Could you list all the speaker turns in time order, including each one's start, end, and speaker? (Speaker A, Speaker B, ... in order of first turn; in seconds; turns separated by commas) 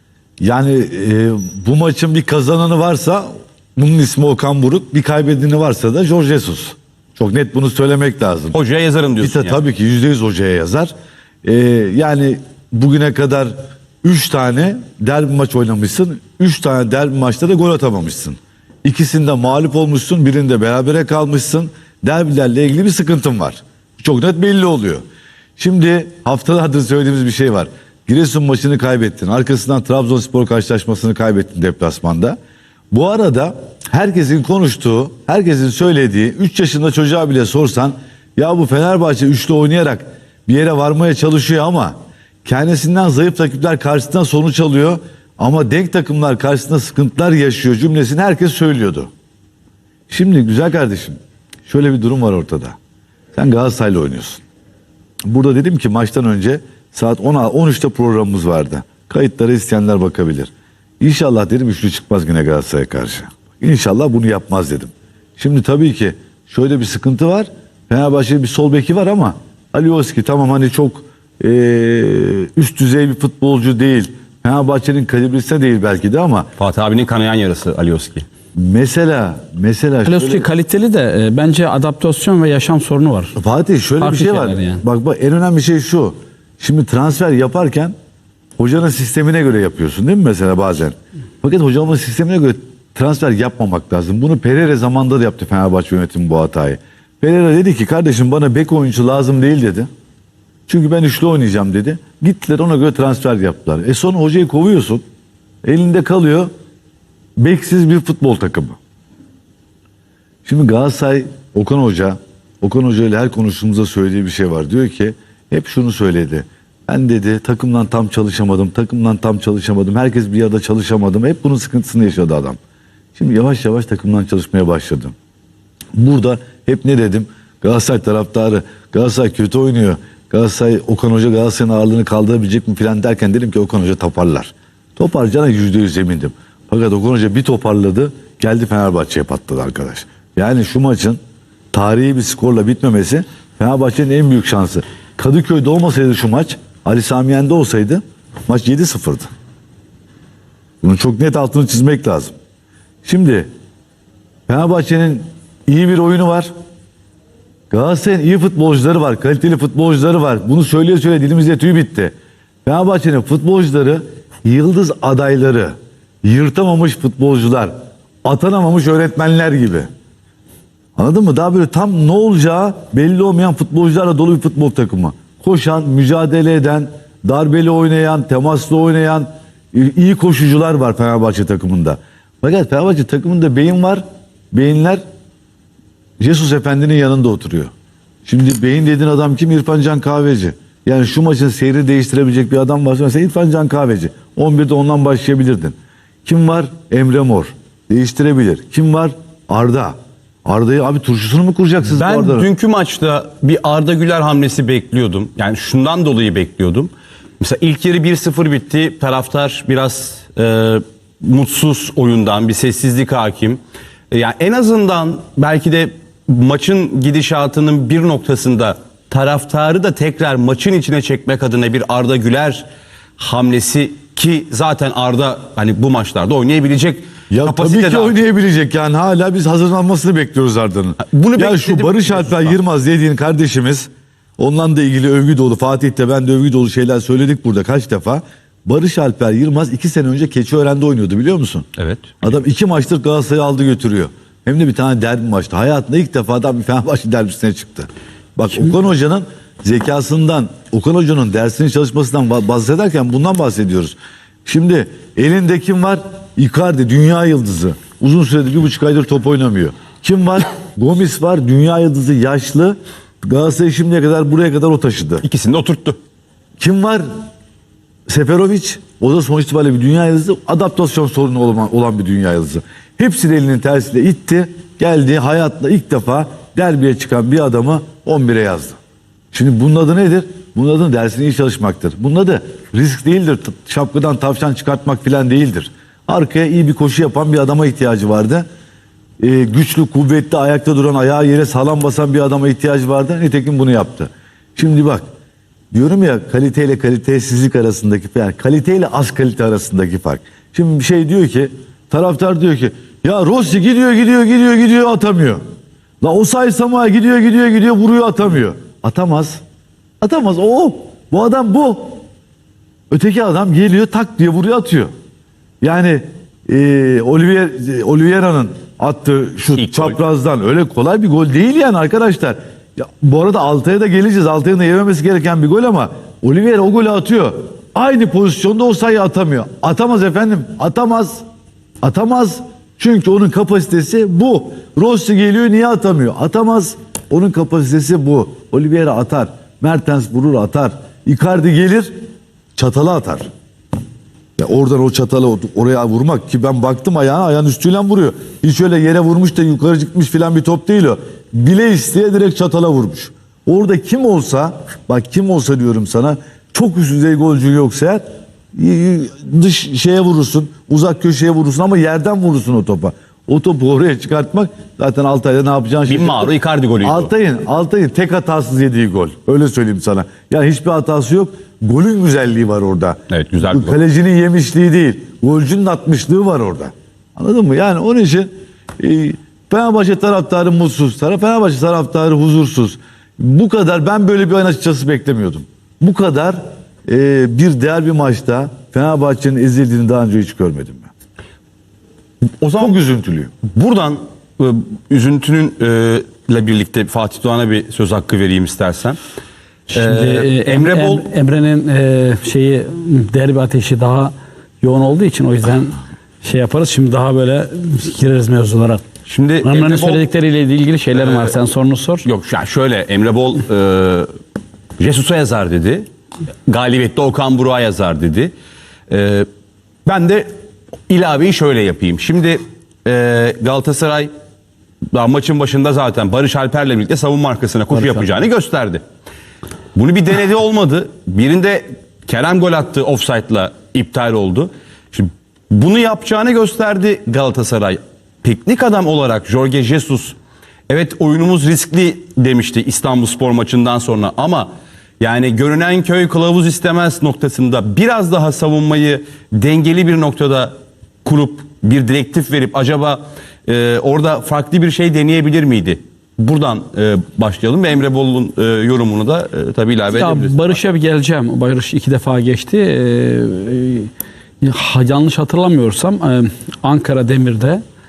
Speaker A: 0.4-8.6, Speaker B: 8.5-9.6, Speaker A: 9.2-10.9, Speaker A: 11.4-25.0, Speaker A: 25.6-32.4, Speaker A: 32.9-49.1, Speaker A: 50.1-52.8, Speaker A: 53.3-54.4, Speaker A: 55.2-76.5, Speaker B: 76.6-78.3, Speaker A: 78.5-80.5, Speaker C: 80.0-83.4, Speaker A: 83.4-88.0, Speaker C: 84.0-84.8, Speaker A: 88.6-99.9, Speaker A: 100.7-105.0, Speaker A: 105.6-106.5, Speaker A: 107.4-108.8, Speaker A: 110.5-122.6, Speaker A: 123.2-125.1, Speaker A: 126.0-141.2, Speaker A: 141.7-149.3, Speaker A: 150.8-152.3, Speaker A: 153.1-153.5, Speaker A: 154.5-156.5, Speaker A: 157.7-162.1, Speaker A: 162.7-167.7, Speaker A: 168.2-169.9, Speaker A: 171.0-185.0, Speaker A: 186.2-187.7, Speaker A: 188.2-195.8, Speaker A: 196.3-202.5, Speaker B: 201.9-213.6, Speaker B: 214.1-222.7, Speaker B: 223.2-228.2, Speaker A: 227.3-241.7, Speaker B: 231.0-232.6, Speaker B: 241.8-242.2, Speaker A: 242.2-265.2, Speaker B: 265.2-266.0, Speaker A: 266.6-267.1, Speaker A: 268.1-278.8, Speaker A: 279.3-288.5, Speaker A: 289.2-295.0, Speaker A: 295.7-305.4, Speaker A: 306.0-309.4, Speaker A: 310.0-312.0, Speaker A: 312.9-314.9, Speaker A: 315.6-331.2, Speaker B: 319.5-320.0, Speaker A: 331.8-341.9, Speaker A: 342.6-343.2, Speaker A: 344.4-390.9, Speaker B: 365.9-367.1, Speaker B: 373.1-373.8, Speaker B: 392.4-392.8, Speaker A: 392.6-393.3, Speaker B: 393.4-399.0, Speaker B: 399.7-401.1, Speaker C: 399.7-408.8, Speaker B: 409.1-410.1, Speaker C: 409.4-412.1, Speaker B: 410.9-411.4, Speaker B: 412.0-414.1, Speaker B: 414.8-415.9, Speaker B: 416.5-418.3, Speaker B: 418.9-419.3, Speaker B: 419.9-420.3, Speaker B: 420.9-424.1, Speaker B: 424.9-428.8, Speaker B: 429.8-440.2, Speaker B: 440.7-460.6, Speaker C: 459.9-463.9, Speaker C: 464.4-467.6